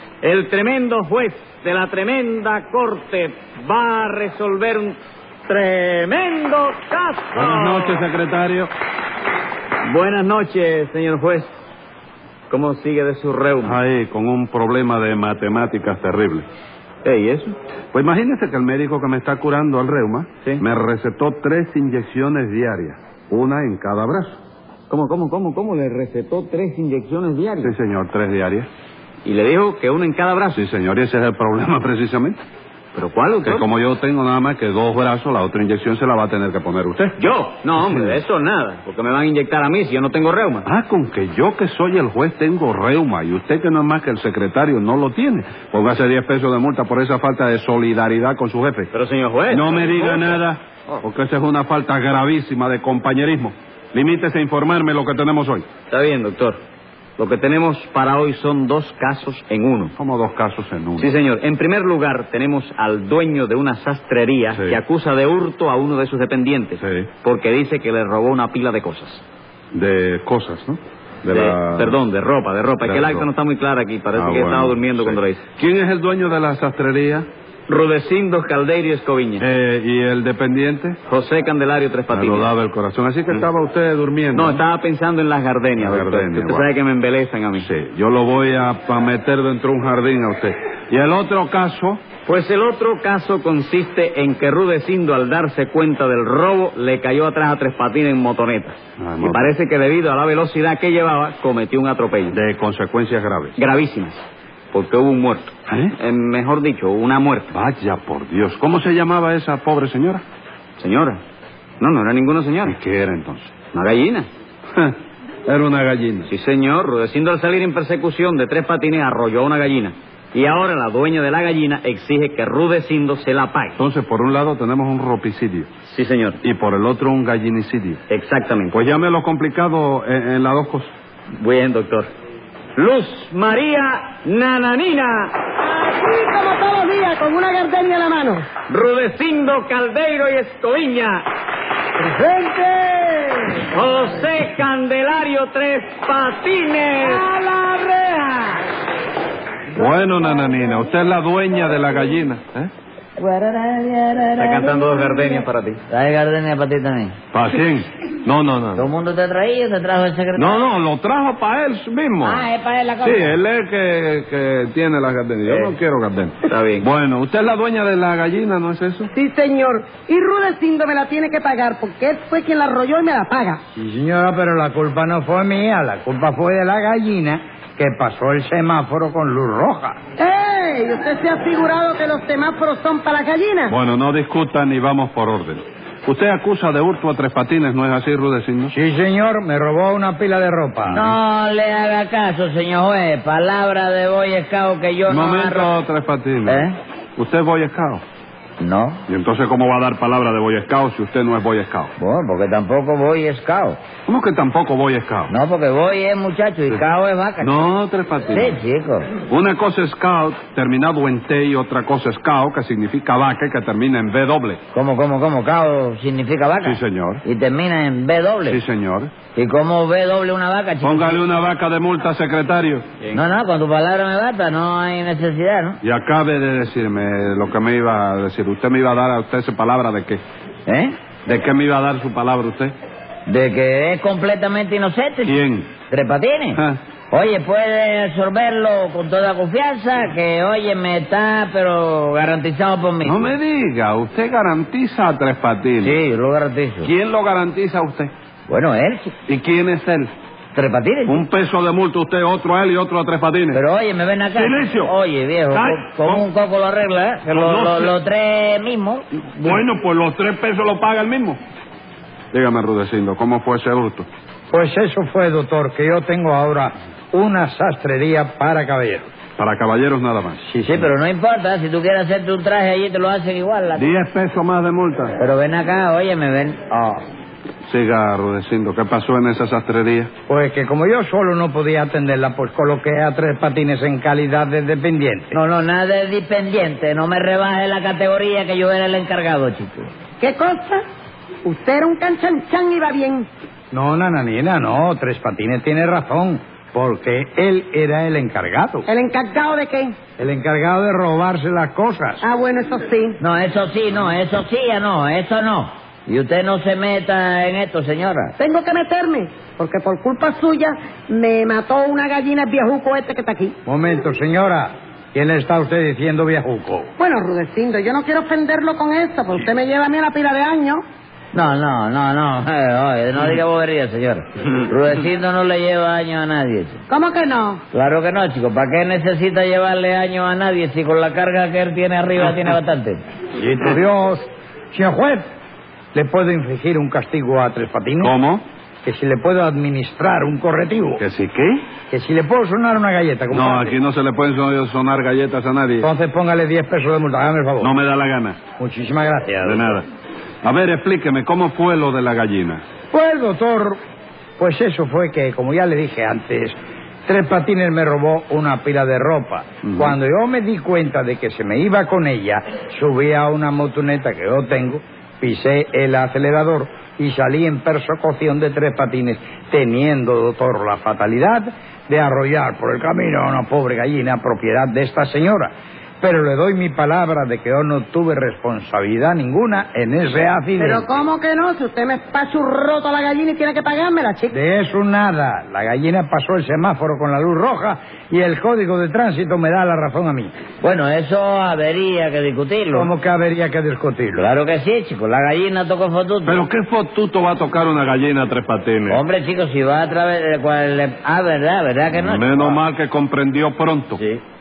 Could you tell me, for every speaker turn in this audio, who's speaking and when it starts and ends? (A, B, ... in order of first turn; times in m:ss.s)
0:00.2-0:08.1 A
0:07.3-0:08.7 B
0:09.8-0:11.5 A
0:12.5-0:13.8 A
0:13.6-0:16.5 B
0:17.0-0:17.6 A
0:17.9-0:24.4 B
0:24.9-0:27.8 A
0:27.6-0:28.7 B
0:29.2-0:30.7 A
0:30.6-0:32.4 B
0:33.0-0:33.6 A
0:33.4-0:37.2 B
0:37.2-0:40.7 A
0:37.8-0:38.2 B
0:40.7-0:48.9 B
0:48.9-0:51.0 A
0:49.5-0:55.7 B
0:55.9-0:56.6 A
0:57.2-0:59.9 A
1:00.0-1:01.1 B
1:01.0-1:09.2 A
1:06.8-1:07.1 B
1:09.7-1:12.0 B
1:11.2-1:15.4 A
1:12.8-1:13.3 B
1:14.2-1:17.3 B
1:17.7-1:19.4 A
1:19.4-1:21.0 B
1:21.1-1:22.5 A
1:22.1-1:24.6 B
1:24.3-1:27.7 A
1:25.8-1:26.7 B
1:27.6-1:32.0 B
1:32.3-1:42.4 A
1:39.0-1:39.5 B
1:42.3-1:43.6 B
1:43.6-1:47.5 A
1:45.7-1:46.0 B
1:47.5-1:50.2 B
1:50.8-1:51.2 A
1:51.8-1:52.8 A
1:52.6-1:53.5 B
1:53.7-1:54.3 A
1:54.7-1:56.3 B
1:56.3-2:03.8 A
2:03.8-2:05.7 B
2:05.8-2:06.4 A
2:06.4-2:08.0 B
2:08.1-2:08.8 A
2:08.7-2:10.9 B
2:11.4-2:12.1 A
2:12.8-2:15.4 A
2:15.6-2:18.5 C
2:18.7-2:21.3 A
2:23.7-2:27.3 A
2:29.8-2:32.7 B
2:33.2-2:37.2 D
2:34.4-2:35.8 A
2:37.3-2:38.9 B
2:38.8-2:40.6 D
2:40.4-2:42.4 B
2:42.2-2:43.4 D
2:43.0-2:49.1 B
2:45.4-2:45.7 A
2:46.4-2:46.9 A
2:49.1-2:53.6 C
2:53.8-3:00.0 E
3:00.2-3:03.8 C
3:03.7-3:08.8 B
3:08.7-3:11.1 E
3:10.9-3:15.7 D
3:15.1-3:18.0 B
3:16.5-3:16.8 D
3:18.6-3:19.0 D
3:19.1-3:21.9 B
3:22.0-3:23.8 D
3:24.1-3:25.3 B
3:25.3-3:27.6 D
3:27.4-3:28.6 B
3:28.3-3:29.1 D
3:29.3-3:34.6 B
3:34.7-3:38.6 D
3:36.6-3:37.2 B
3:38.5-3:39.1 B
3:39.4-3:41.2 D
3:40.8-3:42.8 B
3:43.1-3:45.8 D
3:45.8-3:50.2 B
3:50.7-3:50.9 D
3:51.3-3:52.7 B
3:53.3-3:55.4 D
3:55.2-3:55.7 B
3:55.9-4:03.4 D
4:03.0-4:05.9 B
4:05.8-4:06.9 D
4:06.8-4:08.1 B
4:08.5-4:09.2 D
4:09.3-4:10.1 B
4:10.6-4:11.2 D
4:11.1-4:13.6 B
4:13.5-4:19.0 D
4:14.4-4:14.9 B
4:15.5-4:16.3 B
4:17.3-4:18.0 B
4:19.1-4:21.4 B
4:22.3-4:24.1 B
4:24.5-4:29.1 E
4:29.4-4:30.4 B
4:30.5-4:30.9 E
4:30.6-4:33.9 D
4:33.8-4:35.2 B
4:35.2-4:37.0 D
4:37.6-4:40.1 B
4:40.3-4:45.4 E
4:45.3-4:49.9 D
4:50.2-4:50.8 C
4:51.4-4:53.3 C
4:53.7-4:58.9 E
4:58.9-5:00.0 C
5:00.2-5:02.2 E
5:02.2-5:03.2 C
5:03.2-5:08.4 D
5:08.4-5:13.6 C
5:13.7-5:16.9 E
5:17.0-5:20.8 C
5:21.3-5:26.8 D
5:26.9-5:27.6 C
5:27.7-5:33.0 D
5:33.4-5:35.2 E
5:35.9-5:38.1 E
5:38.0-5:38.4 B
5:38.8-5:41.0 E
5:41.0-5:41.6 B
5:41.9-5:43.8 E
5:43.3-5:45.9 B
5:45.8-5:47.7 E
5:47.6-5:48.4 B
5:48.6-5:49.8 E
5:49.4-5:49.9 B
5:50.4-5:52.6 B
5:52.9-5:53.8 E
5:54.4-5:56.6 E
5:57.1-6:20.8 E
6:20.6-6:24.3 C
6:24.3-6:30.3 E
6:30.6-6:32.9 D
6:32.7-6:34.3 E
6:34.2-6:36.4 D
6:36.2-6:39.0 B
6:38.9-6:42.6 D
6:41.9-6:44.0 B
6:44.0-6:44.2 D